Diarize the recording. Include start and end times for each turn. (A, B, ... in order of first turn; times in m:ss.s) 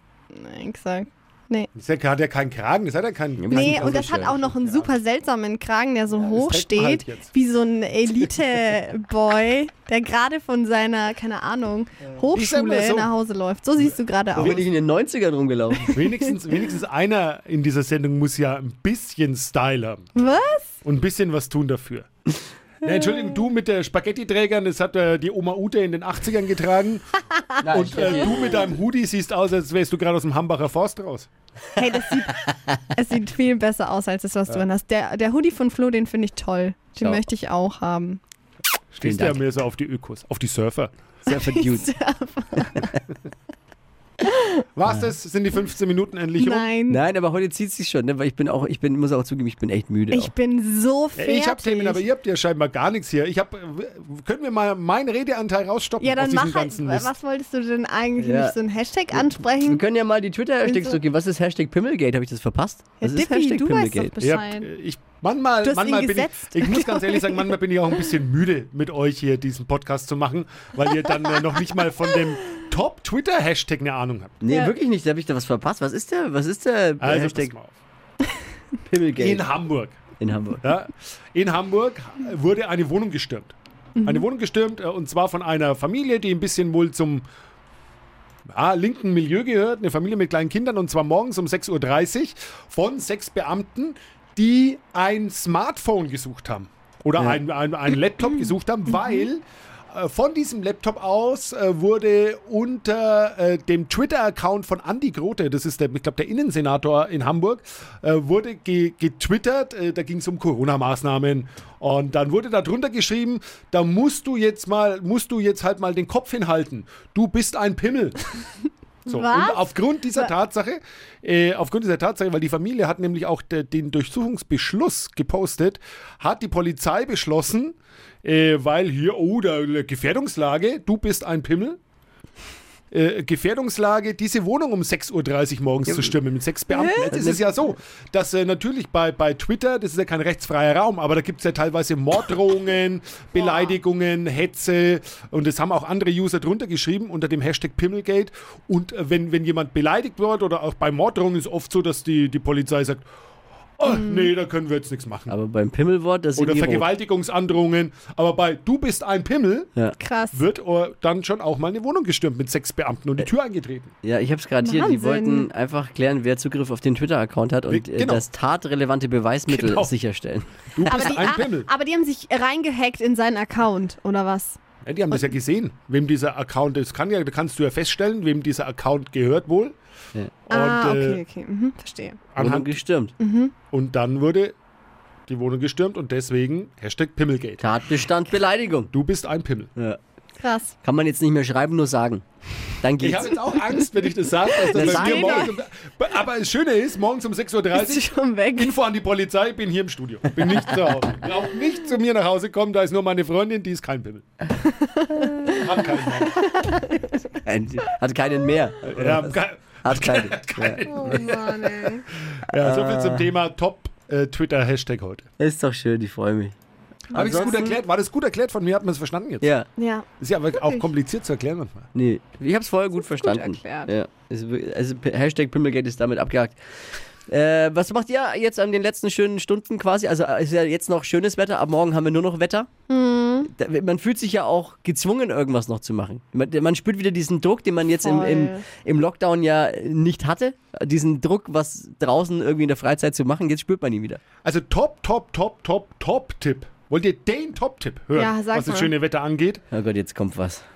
0:00.3-0:01.7 A
0:01.8-0:05.0 B
0:03.4-0:04.3 C
0:03.5-0:14.6 A
0:06.2-0:07.3 B
0:12.3-0:13.1 B
0:13.8-0:14.6 B
0:14.3-0:16.0 C
0:15.9-0:20.1 B
0:20.2-0:20.8 A
0:20.8-0:22.1 B
0:22.8-0:31.3 B
0:27.6-0:28.8 C
0:31.8-0:38.2 A
0:37.0-0:37.2 C
0:38.9-0:41.7 B
0:39.0-0:39.4 C
0:41.3-0:42.9 A
0:41.3-0:41.8 C
0:44.8-0:46.7 B
0:46.4-0:47.0 A
0:46.9-0:50.3 C
0:50.1-0:52.0 A
0:51.2-0:57.1 B
0:56.0-0:59.8 A
0:58.2-0:58.6 C
0:59.1-1:04.2 C
1:00.6-1:01.0 A
1:03.0-1:04.7 A
1:04.2-1:14.4 B
1:05.6-1:07.5 A
1:10.9-1:12.2 A
1:14.4-1:17.5 C
1:14.5-1:14.7 A
1:17.0-1:17.8 B
1:18.9-1:19.5 C
1:19.2-1:20.0 B
1:20.2-1:20.7 C
1:20.6-1:27.2 B
1:24.0-1:24.2 A
1:28.5-1:58.2 B
1:59.1-2:00.3 A
1:59.1-2:11.8 B
2:12.9-2:33.0 B
2:15.9-2:16.2 C
2:16.7-2:17.1 A
2:17.1-2:17.6 C
2:33.8-2:35.4 B
2:33.9-2:34.3 A
2:35.3-2:36.9 C
2:36.4-2:39.7 B
2:40.0-2:40.4 A
2:40.3-2:43.9 B
2:44.0-2:51.2 C
2:44.6-2:45.5 A
2:47.7-2:48.2 B
2:49.5-2:49.9 B
2:50.7-2:51.7 B
2:50.9-2:54.6 A
2:54.8-2:59.8 B
3:00.5-3:01.2 B
3:00.5-3:02.2 A
3:02.3-3:02.8 B
3:02.4-3:03.1 C
3:03.2-3:03.5 A
3:03.7-3:04.6 B
3:05.3-3:07.7 B
3:07.6-3:08.9 C
3:08.9-3:09.7 B
3:10.4-3:10.7 A
3:10.8-3:12.2 C
3:12.8-3:13.4 C
3:13.0-3:24.3 B
3:13.5-3:13.8 A
3:14.5-3:15.5 A
3:14.7-3:15.5 C
3:17.7-3:18.8 A
3:24.6-3:25.7 A
3:25.6-3:26.4 B
3:26.3-3:27.2 A
3:27.4-3:30.9 C
3:28.9-3:35.3 B
3:30.9-3:32.0 A
3:32.6-3:33.3 C
3:35.4-3:36.6 C
3:37.1-3:39.5 B
3:37.1-3:37.7 C
3:37.4-3:37.7 A
3:39.4-3:39.7 C
3:39.8-3:40.9 A
3:40.2-3:41.9 B
3:42.0-3:46.6 C
3:43.0-3:43.9 A
3:47.3-3:52.7 C
3:52.9-3:53.5 A
3:53.5-4:04.2 C
3:58.0-3:58.6 A
4:04.4-4:09.6 B
4:08.2-4:08.9 A
4:09.7-4:10.6 C